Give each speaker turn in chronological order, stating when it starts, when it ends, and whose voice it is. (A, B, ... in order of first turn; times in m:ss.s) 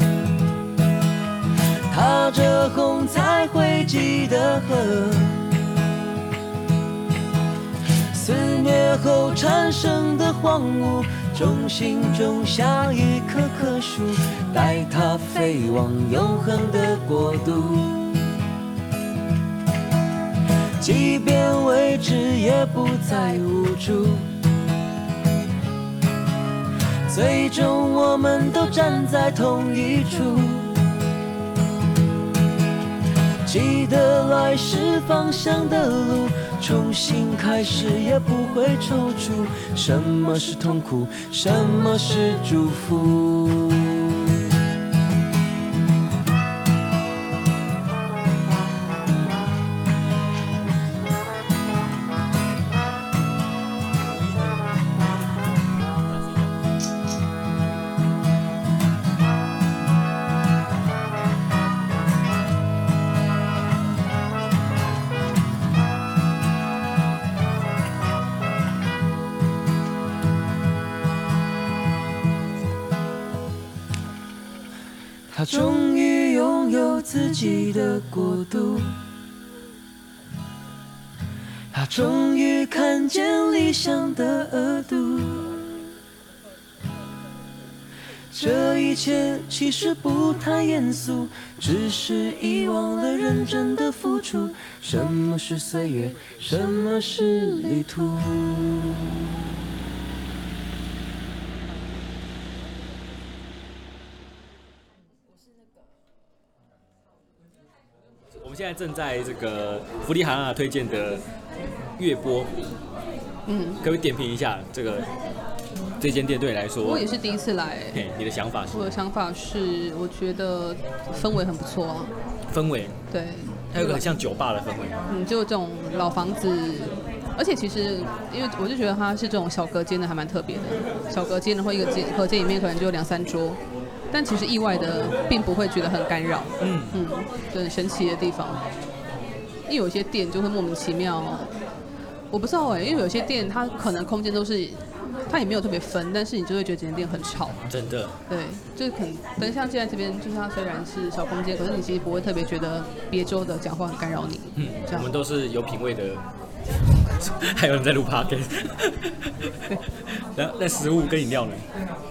0:01.9-0:05.5 A
0:08.1-0:18.4 A
0:20.8-0:24.3 A
0:27.1-0:30.8 A
0:33.4-0:44.4 A
1:15.3-1:19.0 A
1:21.7-1:25.6 A
1:28.3-1:39.1 A
1:48.4-1:51.2 B
1:52.0-1:52.5 B
1:53.5-1:53.8 C
1:53.8-1:55.1 B
1:56.0-1:57.1 B
1:56.8-1:58.0 C
1:57.9-1:59.0 B
1:58.7-2:02.1 C
2:02.5-2:03.0 B
2:03.1-2:04.1 C
2:03.7-2:05.0 B
2:05.1-2:13.6 C
2:14.1-2:18.6 C
2:16.6-2:17.1 B
2:19.7-2:21.5 C
2:22.3-2:27.6 C
2:27.7-2:28.2 B
2:28.3-2:35.1 C
2:34.6-2:36.2 B
2:37.2-2:39.3 B
2:40.4-2:41.6 B